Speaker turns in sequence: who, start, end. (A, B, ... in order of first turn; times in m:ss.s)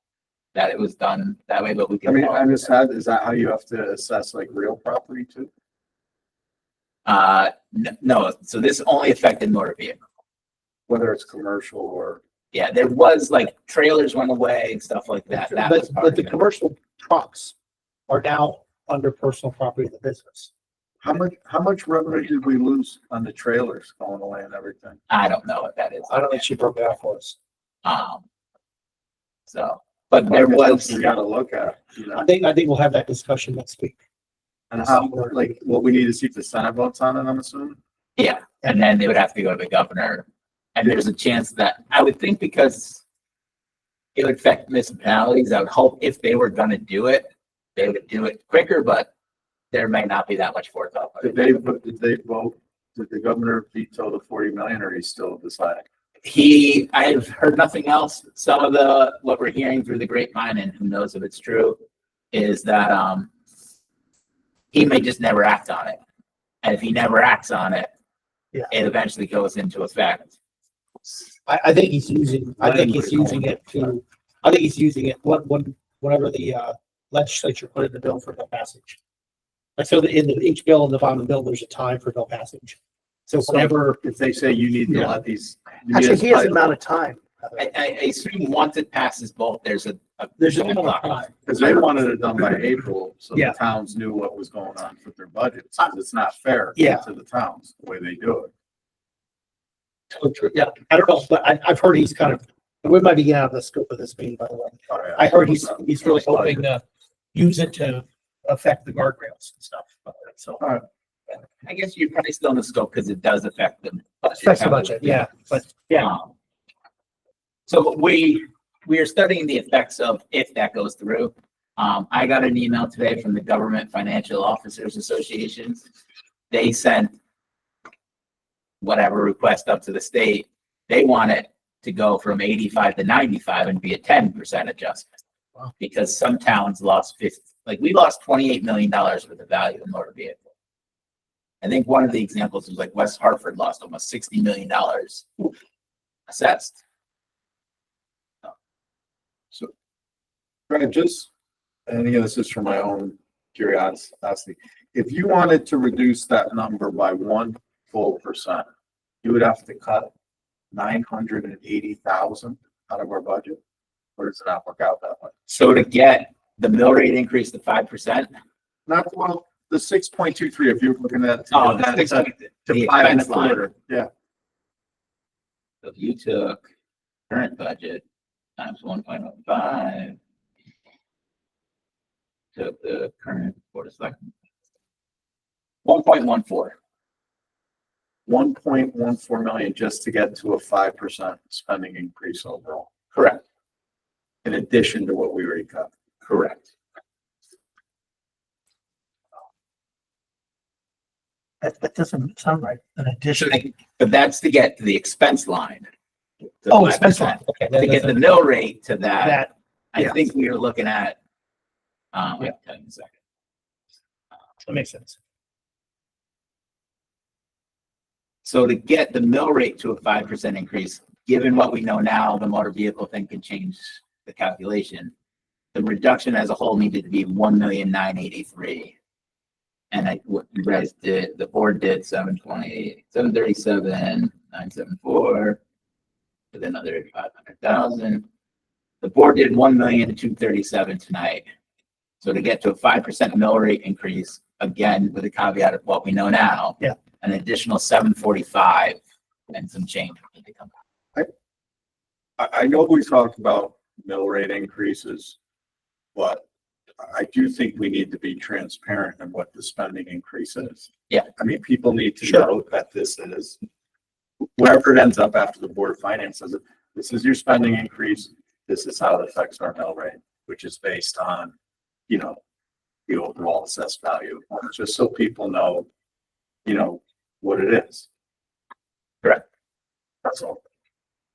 0:00.5-0:02.5 A
0:02.0-0:05.5 B
0:07.0-0:10.0 A
0:10.9-0:12.2 B
0:12.5-0:16.4 A
0:15.3-0:17.6 C
0:18.1-0:20.5 C
0:21.0-0:25.0 B
0:25.1-0:26.4 A
0:26.1-0:27.4 C
0:27.8-0:28.2 A
0:29.5-0:31.0 A
0:30.3-0:32.2 B
0:32.1-0:34.0 C
0:34.7-0:37.8 B
0:34.8-0:35.5 C
0:38.2-0:43.0 A
0:44.2-0:49.1 A
0:49.7-0:51.5 A
0:51.2-0:55.8 B
0:56.2-1:01.8 A
1:02.3-1:03.3 A
1:04.7-1:06.0 A
1:06.6-1:07.9 A
1:08.7-1:10.3 A
1:11.5-1:19.0 C
1:12.6-1:13.9 B
1:19.8-1:24.0 C
1:23.4-1:26.7 B
1:24.9-1:25.2 C
1:25.9-1:27.7 C
1:27.6-1:31.3 A
1:30.4-1:31.7 C
1:31.4-1:38.5 B
1:36.8-1:37.0 C
1:40.1-1:46.8 C
1:44.9-1:46.6 B
1:47.3-1:50.6 C
1:51.6-1:55.3 A
1:54.4-1:56.1 C
1:55.9-1:56.3 A
1:57.7-2:05.8 A
2:06.5-2:07.1 A
2:08.8-2:15.1 A
2:15.8-2:20.4 A
2:21.6-2:25.5 A
2:26.3-2:26.8 A
2:30.7-2:31.3 B
2:31.9-2:38.6 B
2:39.2-2:40.1 B
2:40.7-2:43.6 B
2:44.2-2:45.4 B
2:45.5-2:48.3 A
2:48.9-2:54.1 B
2:51.5-2:53.6 A
2:55.8-2:56.6 A
2:57.3-2:58.0 A
2:58.6-3:00.2 A
3:02.5-3:04.3 A
3:05.8-3:06.7 A
3:08.3-3:12.9 B
3:13.1-3:13.4 A
3:14.4-3:15.9 B
3:16.2-3:16.6 A
3:21.6-3:23.6 C
3:23.4-3:25.9 A
3:26.6-3:31.2 A
3:26.7-3:28.2 C
3:29.2-3:30.2 C
3:32.1-3:33.1 A
3:34.6-3:35.2 C
3:38.4-3:45.1 A
3:45.7-3:48.9 A
3:49.9-3:55.6 A
3:56.5-3:58.2 A
3:59.0-4:01.4 A
4:02.2-4:09.0 A
4:09.5-4:10.7 A
4:12.4-4:15.4 B
4:16.1-4:16.4 B
4:17.0-4:23.6 B
4:24.6-4:31.5 B
4:32.1-4:32.4 B
4:33.1-4:35.9 B
4:36.6-4:38.1 B
4:40.2-4:40.6 B